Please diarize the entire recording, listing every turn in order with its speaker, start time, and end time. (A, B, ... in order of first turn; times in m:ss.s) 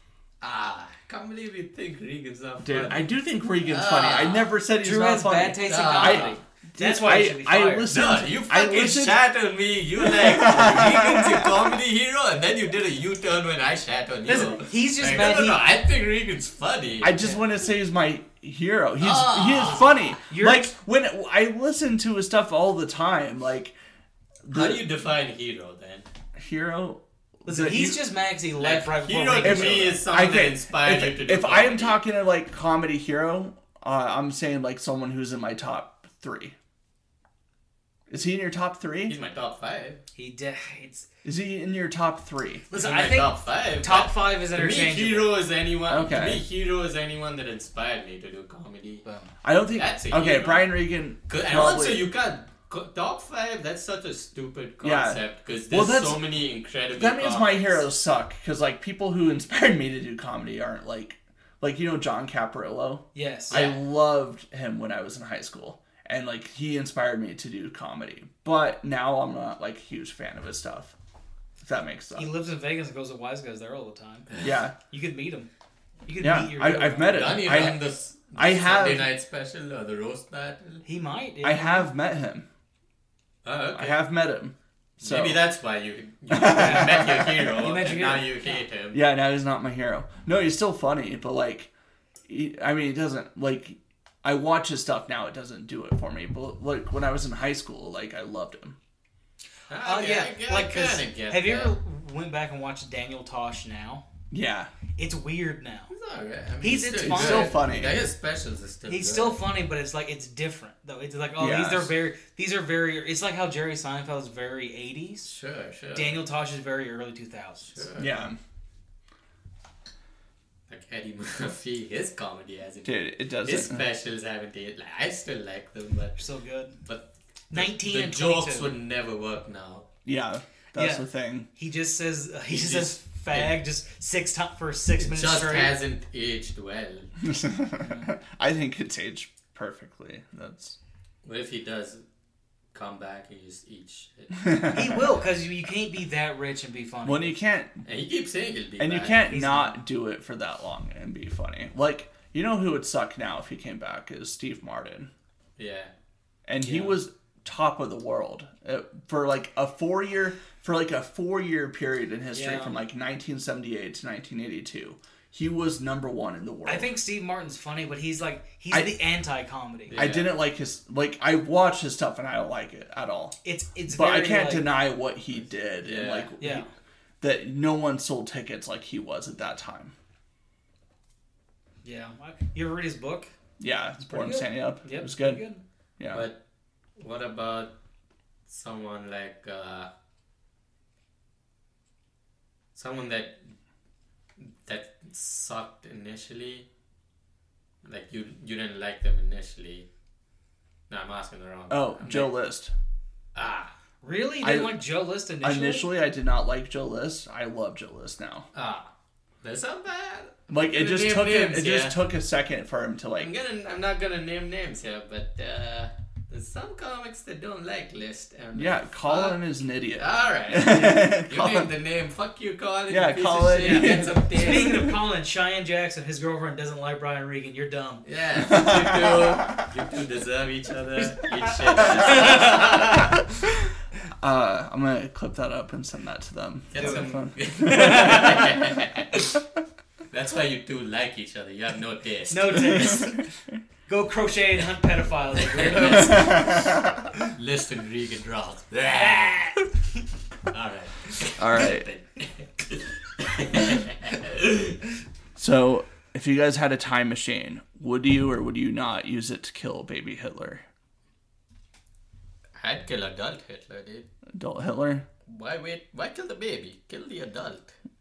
0:00.4-0:03.1 A
0:02.6-0:09.2 B
0:03.6-0:04.5 A
0:04.8-0:07.9 C
0:05.6-0:06.4 A
0:07.9-0:17.4 A
0:10.0-0:11.7 B
0:14.3-0:15.7 C
0:17.0-0:23.8 B
0:19.0-0:20.2 A
0:20.3-0:20.7 C
0:24.4-0:24.8 B
0:24.5-0:26.1 A
0:26.4-0:28.1 B
0:27.5-0:30.0 C
0:28.6-0:32.0 A
0:29.4-0:36.6 B
0:38.1-0:39.2 B
0:39.0-0:40.0 A
0:40.2-0:41.1 C
0:41.2-0:42.7 B
0:42.7-0:45.3 C
0:42.7-0:49.0 A
0:45.9-0:46.4 B
0:49.0-0:49.3 C
0:49.4-0:52.1 B
0:49.7-0:57.8 A
0:54.8-0:56.2 B
0:56.9-1:11.0 B
1:03.2-1:03.6 C
1:03.5-1:03.8 A
1:11.6-1:12.3 B
1:12.2-1:14.3 C
1:14.4-1:14.8 B
1:14.9-1:15.5 C
1:16.1-1:17.2 C
1:16.2-1:17.8 B
1:17.0-1:20.8 A
1:18.4-1:19.1 B
1:20.8-1:21.9 C
1:21.4-1:22.5 B
1:23.4-1:24.0 A
1:23.7-1:25.4 B
1:25.0-1:29.0 A
1:26.3-1:27.8 B
1:26.5-1:27.0 C
1:27.5-1:28.4 C
1:28.9-1:31.7 B
1:32.3-1:38.8 B
1:39.7-1:41.8 A
1:39.8-1:44.0 C
1:44.3-1:44.7 B
1:45.0-1:45.9 C
1:45.9-1:49.5 A
1:46.6-1:47.6 C
1:47.0-1:48.1 B
1:48.9-1:55.3 C
1:51.4-1:51.9 B
1:55.2-1:56.2 A
1:55.9-1:57.8 C
1:57.6-1:58.2 A
1:58.0-1:58.4 B
2:00.7-2:06.2 A
2:02.8-2:03.8 B
2:06.2-2:06.8 C
2:06.8-2:09.9 A
2:07.5-2:08.7 C
2:10.0-2:11.5 B
2:10.8-2:15.7 C
2:12.5-2:13.6 A
2:15.0-2:17.1 A
2:17.2-2:20.8 B
2:17.8-2:18.1 C
2:21.2-2:22.0 A
2:22.7-2:24.5 A
2:24.5-2:24.8 B
2:24.7-2:27.4 C
2:27.0-2:27.8 B
2:27.8-2:29.2 A
2:28.8-2:35.1 B
2:29.3-2:29.8 C
2:35.6-2:35.9 A
2:36.5-2:46.9 B
2:36.6-2:37.0 C
2:42.3-2:42.8 C
2:46.6-2:50.0 C
2:48.7-2:49.0 B
2:49.9-2:50.4 A
2:49.9-2:56.6 B
2:53.4-2:54.7 C
2:55.8-2:56.3 A
2:56.4-2:56.7 C
2:57.2-2:59.9 B
3:01.8-3:03.3 C
3:03.6-3:05.4 B
3:04.1-3:05.6 C
3:06.0-3:06.3 B
3:06.1-3:06.4 A
3:07.0-3:07.8 A
3:08.5-3:09.9 A
3:12.8-3:13.5 A
3:14.4-3:16.7 A
3:17.8-3:19.9 A
3:20.9-3:22.4 A
3:21.7-3:22.7 B
3:23.4-3:23.7 A
3:24.0-3:25.9 C
3:24.4-3:24.8 B
3:25.4-3:28.5 B
3:28.5-3:28.9 A
3:29.4-3:32.0 A
3:30.5-3:33.3 B
3:33.2-3:39.4 A
3:38.5-3:41.7 B
3:40.0-3:44.9 A
3:40.7-3:41.0 C
3:42.9-3:45.0 B
3:43.6-3:48.0 C
3:48.0-3:53.0 A
3:48.4-3:49.6 B
3:51.7-3:53.7 B
3:52.2-3:52.7 C
3:54.2-3:58.2 B
3:56.7-3:59.3 A
3:56.8-3:57.0 C
3:57.7-3:58.4 C
4:00.1-4:03.1 A
4:02.3-4:03.2 C
4:03.9-4:06.6 C
4:05.3-4:06.7 A
4:06.0-4:06.9 B
4:07.2-4:09.6 A
4:10.4-4:14.8 A
4:11.4-4:11.9 B
4:15.4-4:20.6 B
4:22.6-4:24.1 A
4:24.3-4:25.1 B
4:25.3-4:27.7 A